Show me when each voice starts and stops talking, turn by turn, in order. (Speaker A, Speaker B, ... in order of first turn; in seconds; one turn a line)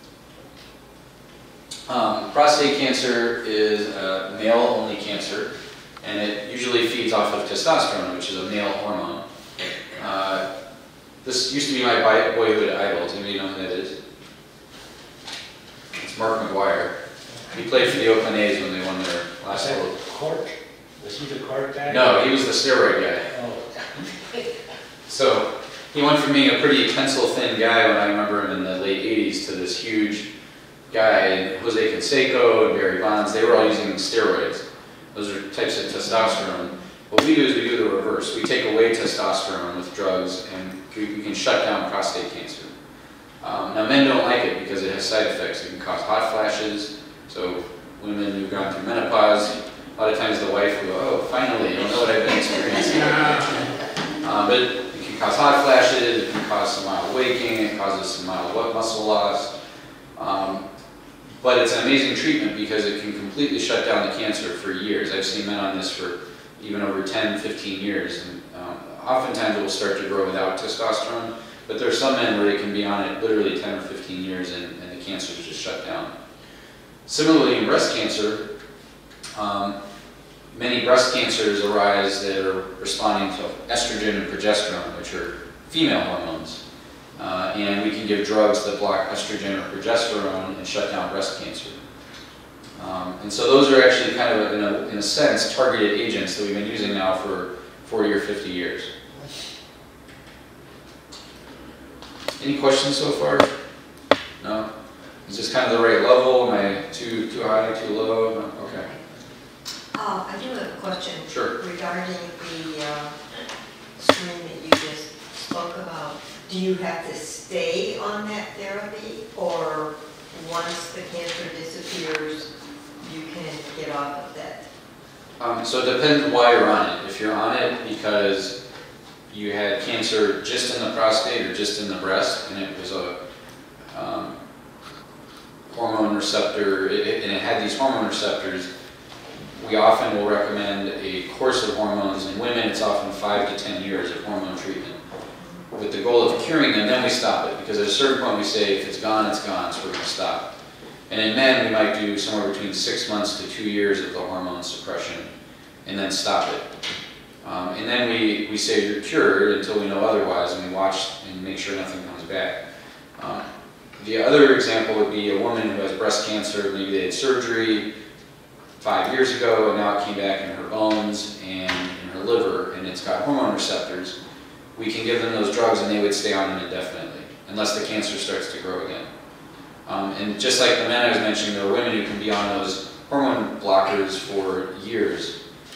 Speaker A: 1.9-5.5
Speaker A: 6.0-9.2
Speaker A: 9.9-10.4
Speaker A: 11.2-14.0
Speaker A: 15.9-16.9
Speaker A: 17.5-20.0
Speaker B: 19.5-22.2
Speaker A: 21.9-23.3
Speaker B: 23.3-23.8
Speaker A: 25.1-30.3
Speaker A: 30.9-42.7
Speaker A: 43.4-53.5
Speaker A: 54.2-59.5
Speaker A: 60.1-60.6
Speaker A: 61.4-76.1
Speaker A: 77.1-78.4
Speaker A: 79.3-79.8
Speaker A: 80.5-86.6
Speaker A: 87.2-91.8
Speaker A: 92.8-98.9
Speaker A: 102.4-103.5
Speaker A: 104.4-104.7
Speaker A: 105.2-108.9
Speaker C: 109.9-113.2
Speaker A: 111.3-111.5
Speaker C: 114.0-122.5
Speaker C: 123.0-124.7
Speaker A: 125.4-128.6
Speaker A: 129.3-133.2
Speaker A: 133.9-134.3
Speaker A: 135.7-138.7
Speaker A: 139.6-145.0
Speaker A: 145.7-150.5
Speaker A: 151.1-155.3
Speaker A: 155.8-156.7
Speaker A: 157.4-162.6
Speaker A: 163.2-163.4
Speaker A: 164.0-167.9
Speaker A: 168.8-174.1
Speaker A: 174.7-179.1
Speaker A: 179.8-185.3